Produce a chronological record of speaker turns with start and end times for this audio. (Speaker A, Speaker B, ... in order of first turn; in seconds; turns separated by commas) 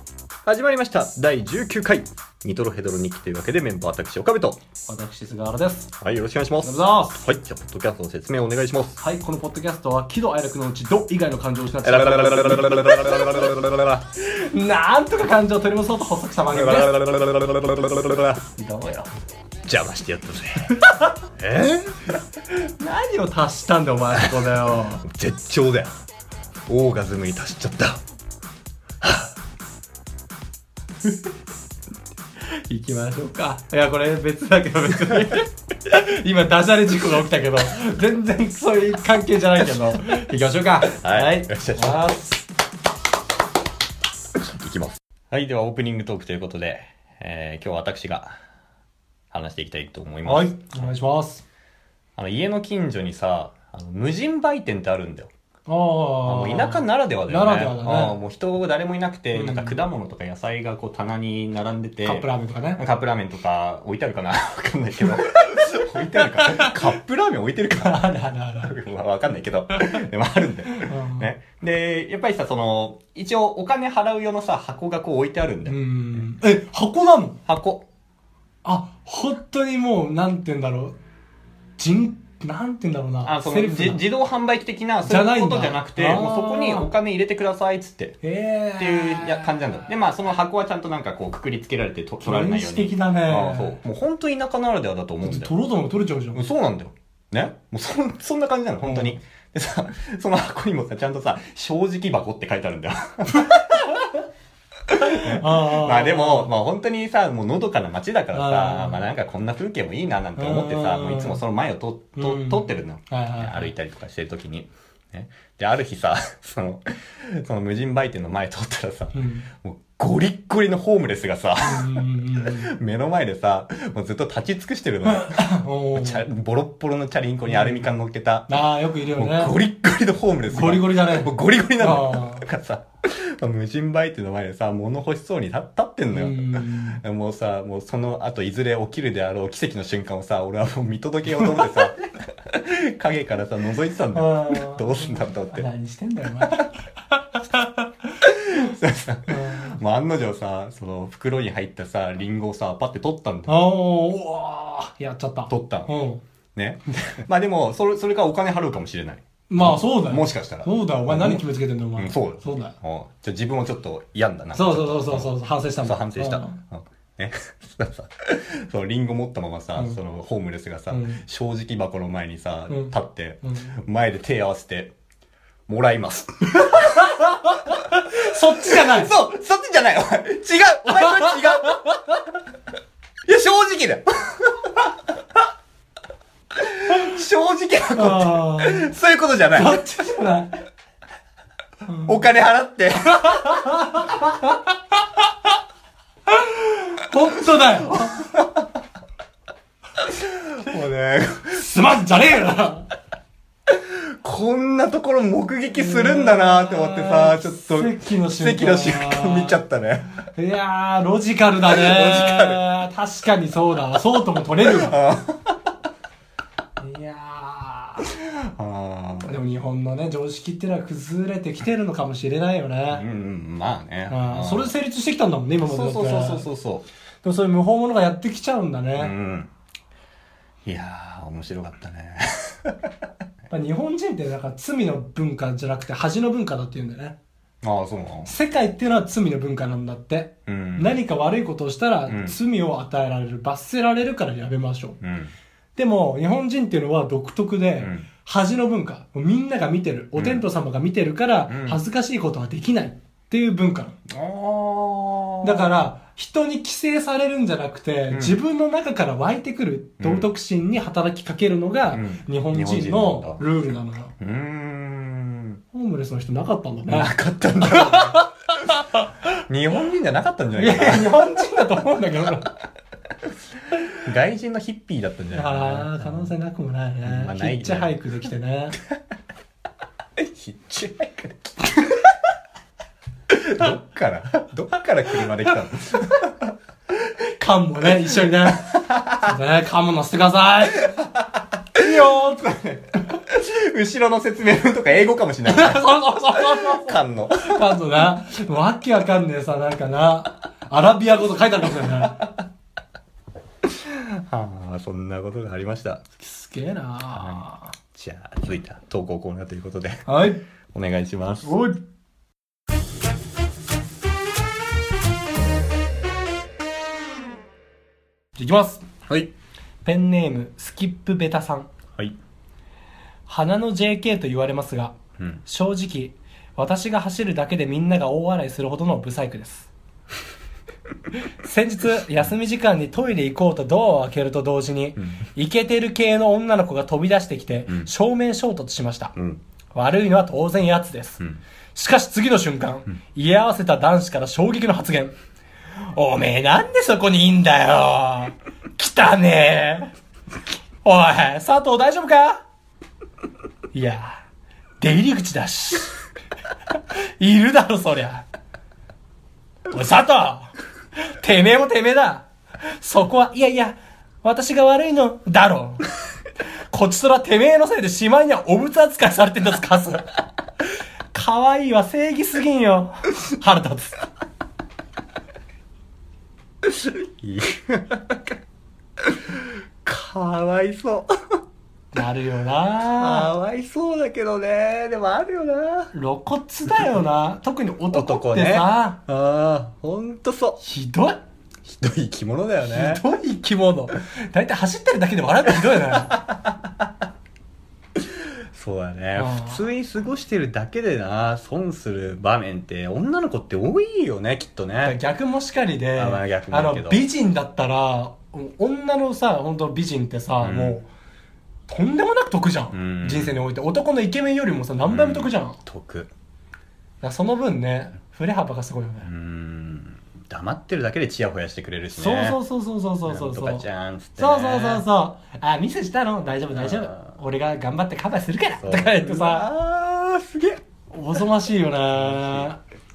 Speaker A: 0.5-4.6, Speaker B: 4.9-5.9, Speaker A: 6.0-9.0, Speaker B: 6.6-7.2, Speaker B: 9.0-13.6, Speaker A: 11.8-14.1, Speaker B: 14.2-16.9, Speaker A: 16.5-18.4, Speaker B: 18.6-19.1, Speaker A: 19.7-20.8, Speaker A: 21.4-22.0, Speaker B: 22.5-25.0, Speaker A: 24.1-25.9, Speaker A: 26.7-28.0, Speaker A: 29.0-29.3, Speaker B: 32.7-42.4, Speaker A: 40.8-42.2, Speaker A: 44.4-48.4, Speaker A: 49.3-50.9, Speaker B: 50.3-51.4, Speaker A: 52.2-55.3, Speaker B: 55.7-58.2, Speaker A: 56.2-76.2, Speaker B: 59.3-59.8, Speaker B: 62.1-62.8, Speaker B: 65.5-66.8, Speaker B: 67.8-68.7, Speaker B: 70.7-71.3, Speaker B: 75.7-77.4, Speaker A: 77.5-77.9, Speaker B: 78.6-81.0, Speaker B: 81.8-84.0, Speaker A: 83.2-88.2, Speaker B: 85.0-86.9, Speaker B: 88.2-89.6, Speaker A: 88.8-95.5, Speaker B: 92.2-93.8, Speaker B: 95.2-96.4, Speaker A: 96.3-104.0, Speaker B: 98.9-99.2, Speaker A: 104.9-128.6, Speaker B: 104.9-106.5, Speaker B: 108.3-109.0, Speaker B: 110.4-111.4, Speaker B: 112.2-113.7, Speaker B: 119.1-119.5, Speaker B: 121.6-122.7, Speaker B: 125.1-126.3, Speaker B: 127.5-127.9, Speaker B: 128.5-129.5, Speaker A: 129.2-145.7, Speaker B: 130.5-132.5, Speaker B: 136.1-137.0, Speaker B: 141.5-141.8, Speaker B: 144.2-146.7, Speaker B: 147.4-147.9, Speaker A: 148.2-153.6, Speaker B: 149.3-149.8, Speaker B: 153.5-156.2, Speaker A: 155.5-155.9, Speaker A: 156.6-161.4, Speaker B: 159.5-162.8, Speaker A: 162.0-174.9, Speaker B: 164.5-166.6, Speaker B: 170.9-171.2, Speaker B: 172.7-173.7, Speaker A: 175.7-177.1, Speaker B: 176.6-179.2, Speaker A: 178.1-181.8, Speaker B: 181.1-181.3, Speaker A: 183.3-184.9, Speaker A: 186.6-189.8, Speaker B: 187.9-188.9, Speaker B: 189.6-190.5, Speaker A: 191.9-193.4, Speaker B: 193.2-195.2, Speaker B: 196.3-198.2, Speaker A: 197.9-198.5, Speaker A: 200.0-201.7, Speaker B: 201.5-202.9, Speaker A: 203.7-210.2, Speaker B: 205.8-209.6, Speaker B: 210.3-215.0, Speaker A: 211.6-212.7, Speaker A: 214.7-215.6, Speaker B: 216.8-218.1, Speaker A: 218.2-219.4, Speaker B: 219.2-223.1, Speaker A: 222.9-224.8, Speaker B: 224.1-226.5, Speaker A: 225.6-226.9, Speaker B: 227.2-229.1, Speaker A: 228.9-229.5, Speaker A: 230.6-232.9, Speaker B: 233.5-237.2, Speaker A: 237.6-238.3, Speaker B: 238.3-245.0, Speaker A: 240.5-241.0, Speaker A: 242.1-242.4, Speaker A: 245.0-245.3, Speaker B: 245.8-254.0, Speaker A: 247.8-248.1, Speaker A: 250.2-250.5, Speaker A: 251.5-251.8, Speaker A: 254.1-255.8, Speaker B: 255.4-264.1, Speaker A: 258.1-258.4, Speaker A: 260.0-260.3, Speaker A: 261.9-263.4, Speaker A: 264.2-265.6, Speaker B: 265.7-267.1, Speaker A: 266.9-268.3, Speaker B: 267.7-268.3, Speaker A: 269.3-271.2, Speaker B: 270.6-272.5, Speaker A: 274.0-276.3, Speaker B: 275.3-278.8, Speaker A: 277.0-277.9, Speaker A: 280.2-282.0, Speaker A: 283.3-286.3, Speaker B: 287.1-291.0, Speaker A: 288.6-289.2, Speaker B: 291.8-292.6, Speaker A: 291.8-298.1, Speaker B: 295.5-302.2, Speaker A: 303.6-306.0, Speaker B: 306.2-307.7, Speaker A: 307.1-310.1, Speaker B: 310.1-310.4, Speaker A: 310.7-311.5, Speaker B: 311.4-311.8, Speaker B: 318.4-318.9, Speaker A: 319.1-319.3, Speaker B: 319.8-321.7, Speaker B: 323.3-324.9, Speaker B: 325.5-329.7, Speaker B: 331.4-339.1, Speaker B: 339.7-341.2, Speaker B: 341.8-345.2, Speaker B: 345.9-349.9, Speaker B: 350.8-352.4, Speaker B: 353.7-354.2, Speaker B: 354.8-355.9, Speaker B: 357.2-358.2, Speaker B: 359.7-360.5, Speaker B: 361.2-365.9, Speaker B: 366.7-370.1, Speaker B: 371.1-374.1, Speaker A: 376.6-378.4, Speaker A: 379.0-381.1, Speaker B: 381.9-383.3, Speaker A: 382.8-385.9, Speaker B: 385.9-389.0, Speaker A: 387.9-390.6, Speaker B: 390.6-391.2, Speaker A: 391.6-393.1, Speaker B: 392.6-396.2, Speaker A: 395.6-396.6, Speaker A: 398.0-405.0, Speaker B: 399.2-399.6, Speaker B: 404.8-410.9, Speaker A: 406.0-407.1, Speaker A: 410.4-410.8, Speaker B: 411.7-415.6, Speaker A: 412.7-413.4, Speaker A: 414.8-416.1, Speaker B: 417.0-419.1, Speaker A: 419.1-422.4, Speaker B: 421.9-423.7, Speaker A: 423.1-424.9, Speaker B: 424.2-429.5, Speaker A: 426.6-427.1, Speaker A: 428.6-430.6, Speaker B: 430.9-432.6, Speaker A: 431.9-432.5